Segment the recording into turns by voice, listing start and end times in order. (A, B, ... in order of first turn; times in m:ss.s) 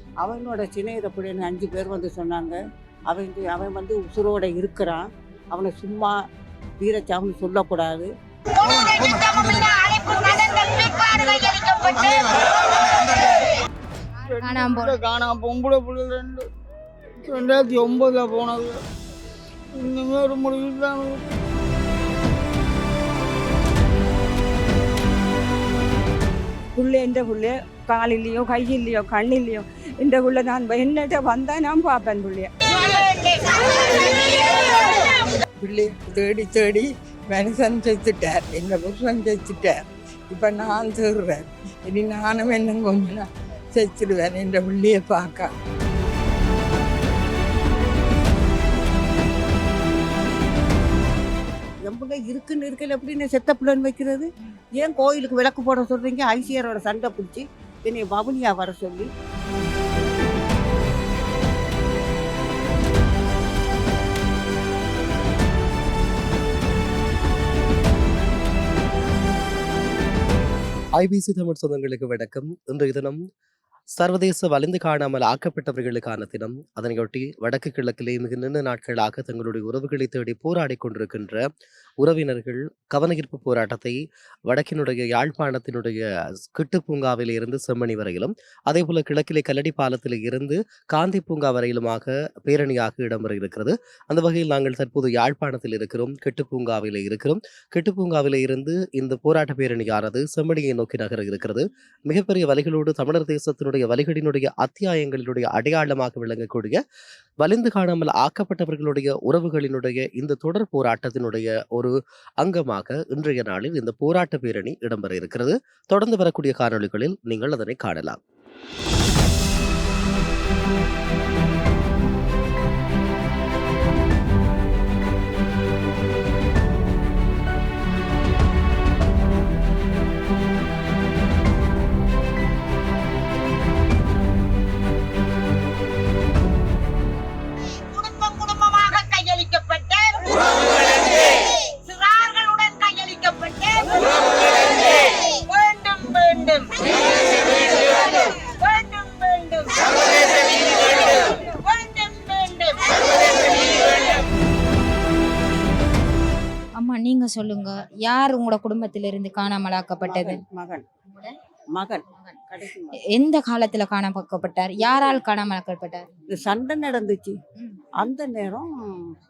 0:00.2-0:06.2 A
0:06.8-0:08.1 A
0:08.7-0:10.8 A
0:11.0-0:12.2 B
0:11.4-0:11.7 A
0:14.3-0:16.5 B
0:14.4-0:15.0 C
0:17.2-0:18.8 B
0:19.7-0:21.2 B
0:26.8-0:32.5 D
0:35.6-0:39.8 E
0:40.3-0:43.2 E
0:43.7-0:45.5 E
0:51.8-0:59.1 A
1:11.0-1:13.2 F
1:14.0-1:21.4 F
1:22.0-1:26.0 F
1:26.5-1:46.8 F
1:47.4-1:58.2 F
2:22.3-2:22.6 A
2:36.8-2:40.4 C
2:40.0-2:40.8 A
2:41.7-2:42.9 A
2:43.0-2:46.0 C
2:46.3-2:47.4 A
2:48.0-2:48.7 A